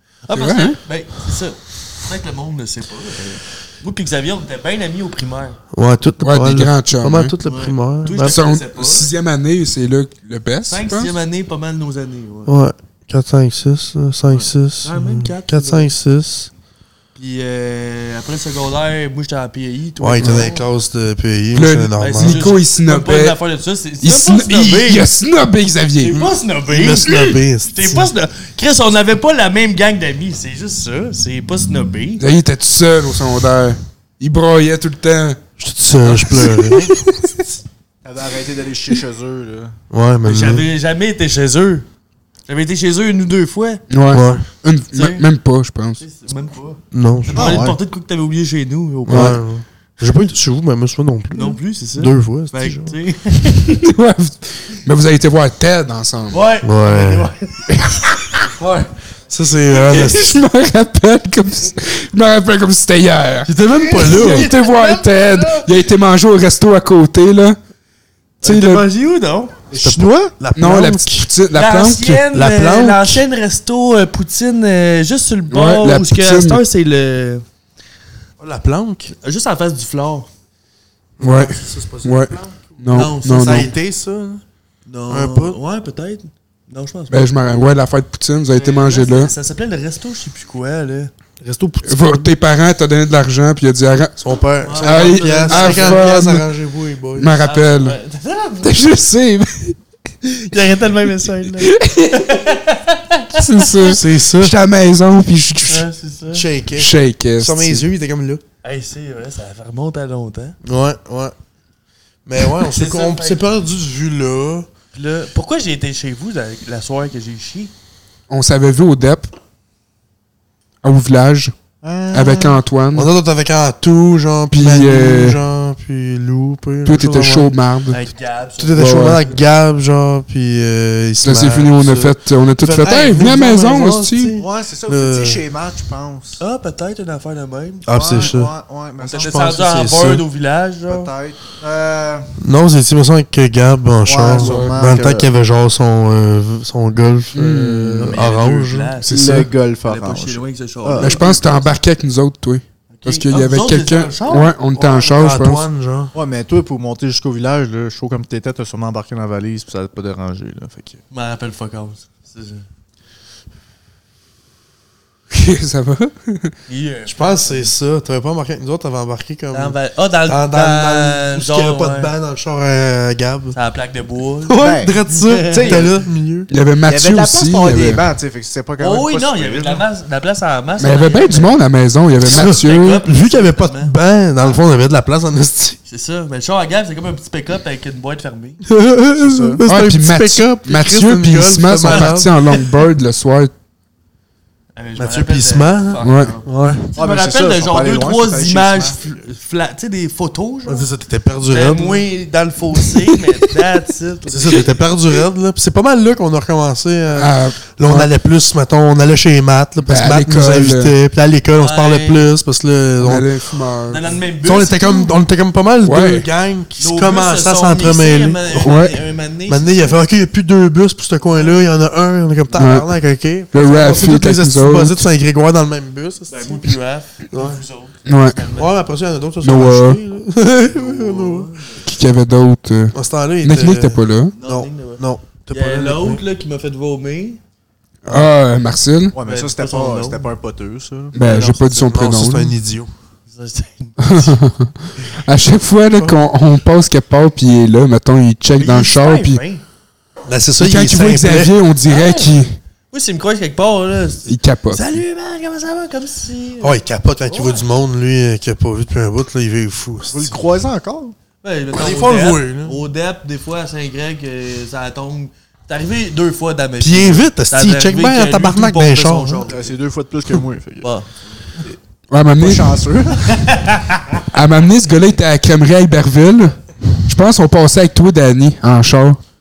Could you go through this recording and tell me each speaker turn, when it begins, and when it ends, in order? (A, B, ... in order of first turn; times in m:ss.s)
0:00.2-0:05.6 A
0:00.3-0:00.8 B
0:05.7-0:08.4 C
0:06.2-0:07.3 B
0:07.4-0:09.1 A
0:08.2-0:11.1 B
0:10.6-0:12.5 A
0:12.5-0:16.5 C
0:14.3-0:15.9 A
0:17.2-0:20.6 A
0:20.0-0:22.4 C
0:21.5-0:23.4 B
0:22.0-0:25.1 A
0:24.0-0:26.2 B
0:26.0-0:32.2 A
0:26.2-0:28.1 C
0:32.2-0:35.4 B
0:35.6-0:37.0 C
0:36.1-0:36.4 A
0:38.0-0:39.7 D
0:39.9-0:40.6 C
0:40.2-0:41.8 A
0:42.5-0:43.8 A
0:43.9-0:46.0 B
0:44.1-0:44.4 C
0:44.9-0:45.2 A
0:46.0-0:49.4 A
0:46.9-0:47.7 C
0:47.3-0:47.8 D
0:49.1-0:53.0 C
0:49.1-0:49.4 B
0:51.3-0:53.8 A
0:53.7-0:56.4 B
0:56.3-0:57.7 A
0:56.6-0:57.3 C
0:57.7-0:58.5 B
0:58.6-0:58.8 A
0:59.3-1:00.3 C
0:59.8-1:07.6 B
1:03.4-1:04.5 C
1:03.7-1:05.7 A
1:08.4-1:08.8 B
1:08.4-1:09.5 A
1:09.7-1:10.3 D
1:09.7-1:11.3 C
1:10.5-1:12.1 B
1:11.5-1:17.4 A
1:12.0-1:13.2 C
1:15.5-1:16.6 B
1:18.4-1:19.1 C
1:19.1-1:20.3 A
1:21.2-1:21.8 C
1:21.2-1:23.7 B
1:21.6-1:23.7 A
1:22.9-1:24.4 C
1:24.9-1:27.3 A
1:25.1-1:25.6 C
1:27.1-1:29.3 B
1:28.5-1:31.1 A
1:31.4-1:32.2 C
1:31.8-1:34.2 B
1:34.2-1:37.3 C
1:34.6-1:36.1 A
1:34.7-1:36.5 B
1:37.2-1:38.0 B
1:37.4-1:38.8 A
1:38.6-1:39.8 B
1:40.2-1:43.9 A
1:41.6-1:42.4 B
1:43.3-1:45.9 B
1:43.8-1:44.5 C
1:45.6-1:46.4 A
1:46.3-1:48.4 C
1:46.8-1:47.8 B
1:48.6-1:50.6 A
1:50.6-1:51.3 C
1:52.2-1:54.7 C
1:52.6-1:53.4 A
1:54.9-1:57.7 A
1:58.3-1:59.3 B
2:00.8-2:01.5 B
2:01.8-2:02.6 D
2:02.1-2:03.1 B
2:02.9-2:07.5 C
2:04.5-2:05.4 B
2:06.8-2:08.0 B
2:07.9-2:09.4 A
2:08.6-2:15.4 C
2:08.7-2:09.2 B
2:11.2-2:14.3 B
2:14.3-2:16.4 D
2:16.4-2:18.3 A
2:17.8-2:18.5 C
2:17.9-2:19.8 D
2:19.0-2:21.1 A
2:19.1-2:20.2 C
2:20.9-2:22.3 D
2:22.4-2:29.0 C
2:24.0-2:25.3 D
2:24.3-2:24.8 B
2:27.3-2:28.2 B
2:28.0-2:31.7 A
2:29.0-2:31.2 D
2:31.0-2:35.6 B
2:32.9-2:34.6 A
2:34.9-2:36.1 C
2:36.1-2:41.0 D
2:41.1-2:42.6 A
2:45.3-2:46.5 B
2:46.7-2:47.7 A
2:47.1-2:53.6 C
2:49.5-2:52.1 A
2:53.5-2:55.9 A
2:54.4-2:56.5 C
2:54.6-2:55.9 D
2:56.5-2:58.0 B
2:56.9-2:59.8 D
2:58.8-3:01.6 A
3:00.8-3:03.0 B
3:02.2-3:04.0 A
3:02.3-3:05.8 C
3:05.9-3:08.6 A
3:08.7-3:12.3 C
3:09.2-3:09.6 D
3:09.6-3:13.5 B
3:11.9-3:12.1 A
3:14.8-3:20.9 A
3:15.0-3:16.9 C
3:16.0-3:16.3 B
3:16.9-3:19.0 D
3:20.7-3:22.1 C
3:21.5-3:24.8 A
3:24.3-3:33.3 C
3:27.1-3:28.1 B
3:29.8-3:30.9 B
3:31.5-3:32.2 A
3:33.0-3:34.0 B
3:33.9-3:35.2 A
3:34.4-3:38.7 C
3:35.8-3:36.3 B
3:36.8-3:40.0 A
3:38.6-3:38.9 B
3:39.5-3:46.7 C
3:41.3-3:41.6 A
3:42.5-3:42.9 B
3:43.5-3:45.0 B
3:46.3-3:48.7 A
3:47.3-3:47.6 C
3:48.0-3:48.4 B
3:48.6-3:51.5 C
3:49.4-3:50.0 B
3:50.7-3:51.9 A
3:51.8-3:54.3 B
3:52.9-3:56.2 C
3:54.3-3:57.4 A
3:58.0-3:59.1 B
3:59.1-4:01.6 D
3:59.2-4:00.3 A
4:01.1-4:02.6 B
4:01.7-4:02.9 C
4:03.3-4:04.4 A
4:04.0-4:09.4 B
4:08.6-4:09.6 A
4:10.3-4:11.5 C
4:10.6-4:12.6 B
4:11.8-4:12.4 A
4:12.9-4:17.6 A
4:14.2-4:15.0 B
4:16.6-4:20.4 C
4:20.1-4:21.1 D
4:21.4-4:29.7 A
4:21.7-4:22.8 C
4:26.8-4:29.5 C
4:29.5-4:30.9 D
4:30.8-4:31.1 A
4:32.1-4:32.8 B
4:32.4-4:33.7 D
4:33.5-4:34.0 A
4:34.3-4:39.2 B